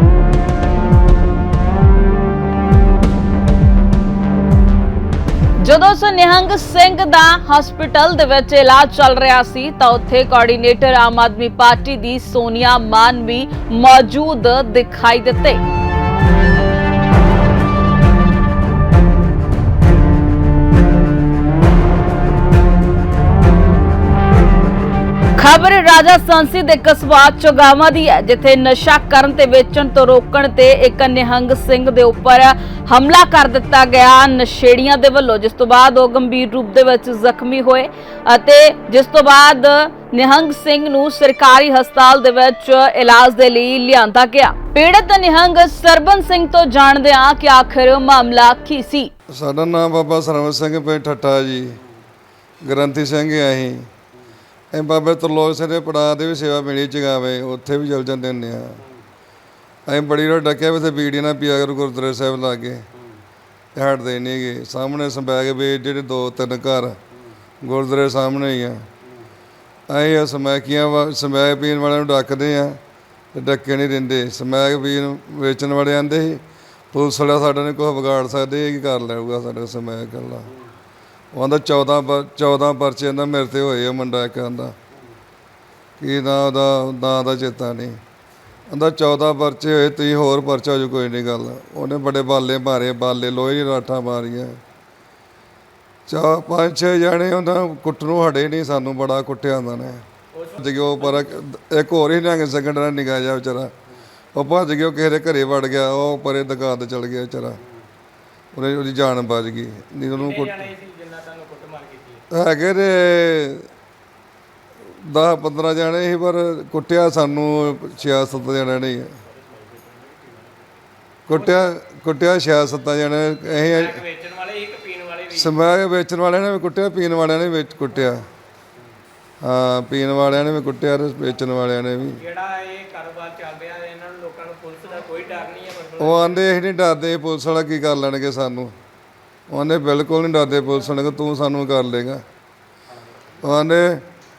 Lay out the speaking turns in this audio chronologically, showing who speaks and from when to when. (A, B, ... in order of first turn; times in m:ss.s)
0:05.6-0:15.6 A
0:25.4-0:49.1 A
0:49.3-0:51.8 B
0:52.6-0:53.9 B
0:54.7-0:58.8 B
0:59.9-1:02.8 B
1:03.8-1:07.0 B
1:07.6-1:08.9 B
1:09.9-1:12.8 B
1:13.3-1:16.4 B
1:16.9-1:20.5 B
1:21.3-1:24.8 B
1:26.0-1:28.0 B
1:28.7-1:34.6 B
1:36.1-1:40.0 B
1:40.3-1:41.3 C
1:40.6-1:43.7 B
1:44.3-1:47.6 B
1:48.5-1:50.7 B
1:50.1-1:52.2 C
1:52.3-1:53.7 B
1:55.0-1:59.1 B
2:01.3-2:04.0 B
2:01.3-2:01.7 C
2:03.5-2:05.6 C
2:05.3-2:08.2 B
2:09.4-2:12.2 B
2:12.1-2:16.4 C
2:16.0-2:18.7 B
2:19.5-2:22.2 B
2:23.4-2:24.0 B